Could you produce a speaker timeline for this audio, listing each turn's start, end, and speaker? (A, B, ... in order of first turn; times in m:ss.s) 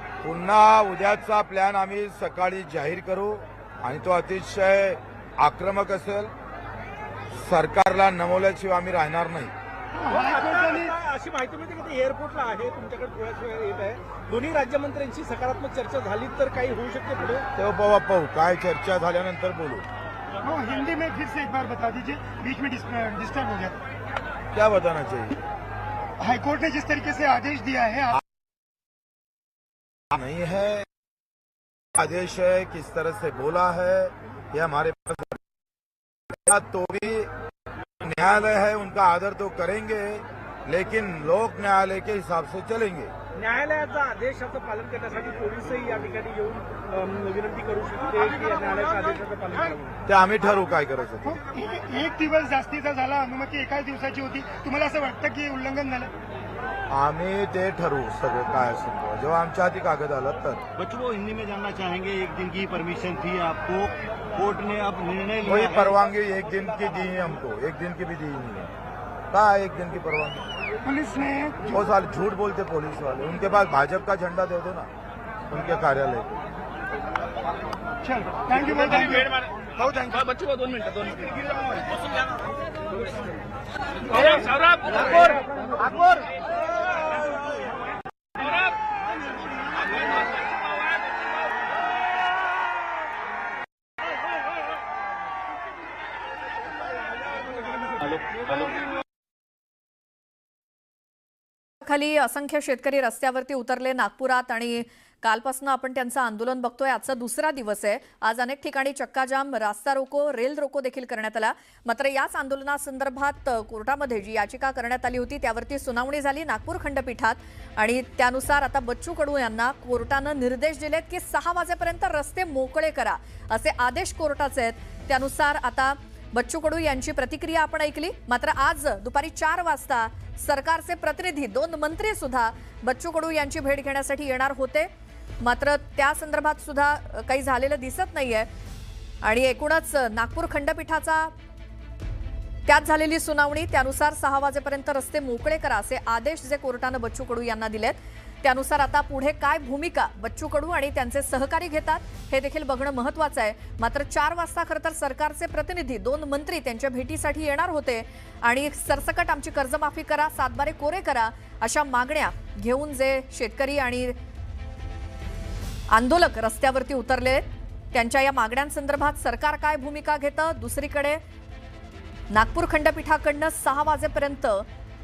0:00.2-0:06.3 A
0:07.3-0:09.5 A
0:10.0-0:10.9 B
0:10.1-0:17.4 C
0:17.6-0:19.8 A
0:20.4-0:23.8 B
0:24.5-0:25.4 A
0:26.2-0:28.2 B
0:30.1-0:30.9 A
0:32.0-0:35.4 A
0:36.3-0:37.3 A
0:38.0-0:43.1 A
0:43.4-0:49.9 C
0:50.1-0:51.4 A
0:51.2-0:56.1 B
0:56.9-1:00.6 A
1:00.8-1:06.0 D
1:05.4-1:08.7 A
1:09.3-1:10.5 A
1:10.8-1:11.8 B
1:11.7-1:14.9 A
1:15.5-1:16.4 A
1:18.0-1:20.2 B
1:18.6-1:21.8 E
1:24.1-1:25.9 E
1:28.4-1:28.8 E
1:29.8-1:31.2 E
1:41.8-2:14.9 F
2:15.4-2:18.5 F
2:19.2-2:21.3 F
2:22.7-2:44.2 F
2:45.9-2:51.2 F
2:52.3-2:54.6 F